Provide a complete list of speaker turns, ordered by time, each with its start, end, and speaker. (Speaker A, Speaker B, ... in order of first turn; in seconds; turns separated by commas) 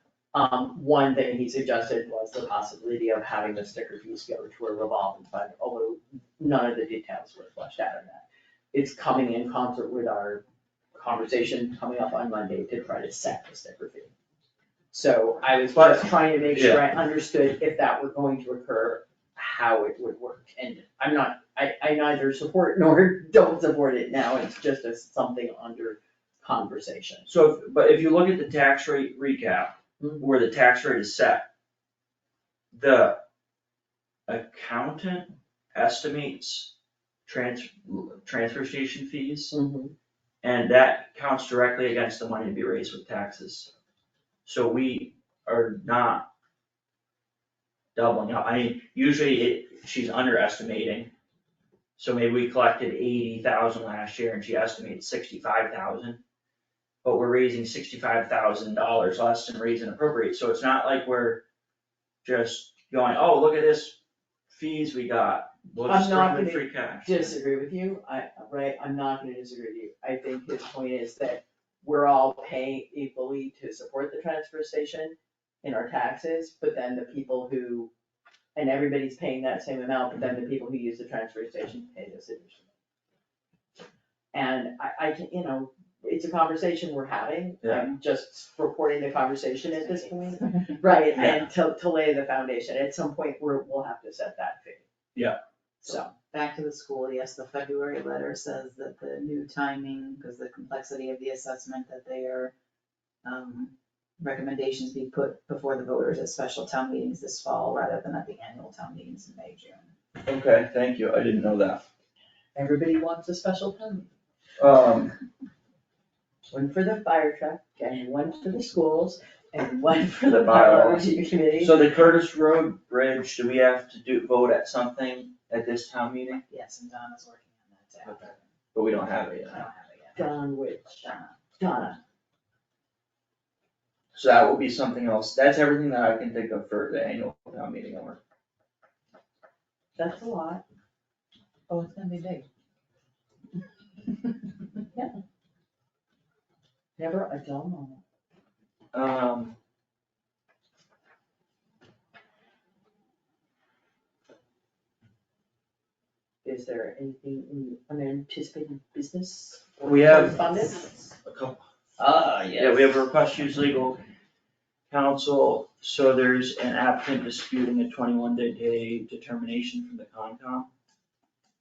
Speaker A: 0.3-10.4, Speaker A: 10.9-14.1, Speaker A: 14.9-27.3, Speaker B: 15.8-16.8, Speaker B: 27.3-31.5, Speaker A: 30.0-30.3, Speaker B: 32.7-33.2, Speaker B: 34.3-36.7, Speaker B: 37.3-39.6, Speaker A: 39.5-39.9, Speaker B: 40.4-43.7, Speaker B: 44.5-46.3, Speaker B: 48.0-51.1, Speaker B: 52.0-56.2, Speaker B: 57.0-61.4, Speaker B: 62.2-64.0, Speaker B: 64.5-67.4, Speaker A: 65.8-77.9, Speaker A: 78.5-82.7, Speaker A: 84.3-94.9, Speaker B: 87.6-87.9, Speaker C: 89.8-91.0, Speaker B: 91.2-91.4, Speaker A: 95.8-96.1, Speaker C: 96.3-102.5, Speaker C: 103.2-109.9, Speaker B: 110.2-111.8, Speaker A: 112.5-114.1, Speaker B: 114.6-115.1, Speaker A: 116.5-121.8, Speaker B: 120.2-126.4, Speaker C: 126.5-128.5, Speaker B: 128.1-129.7, Speaker C: 129.5-130.3, Speaker A: 130.2-132.0, Speaker C: 131.0-131.4, Speaker B: 134.1-138.2, Speaker A: 140.0-140.6, Speaker A: 141.7-142.5, Speaker A: 147.0-148.0, Speaker B: 148.9-149.6, Speaker A: 156.4-161.0, Speaker B: 159.8-160.5, Speaker B: 161.2-161.6, Speaker A: 162.0-163.0, Speaker B: 162.6-164.0, Speaker B: 164.9-170.7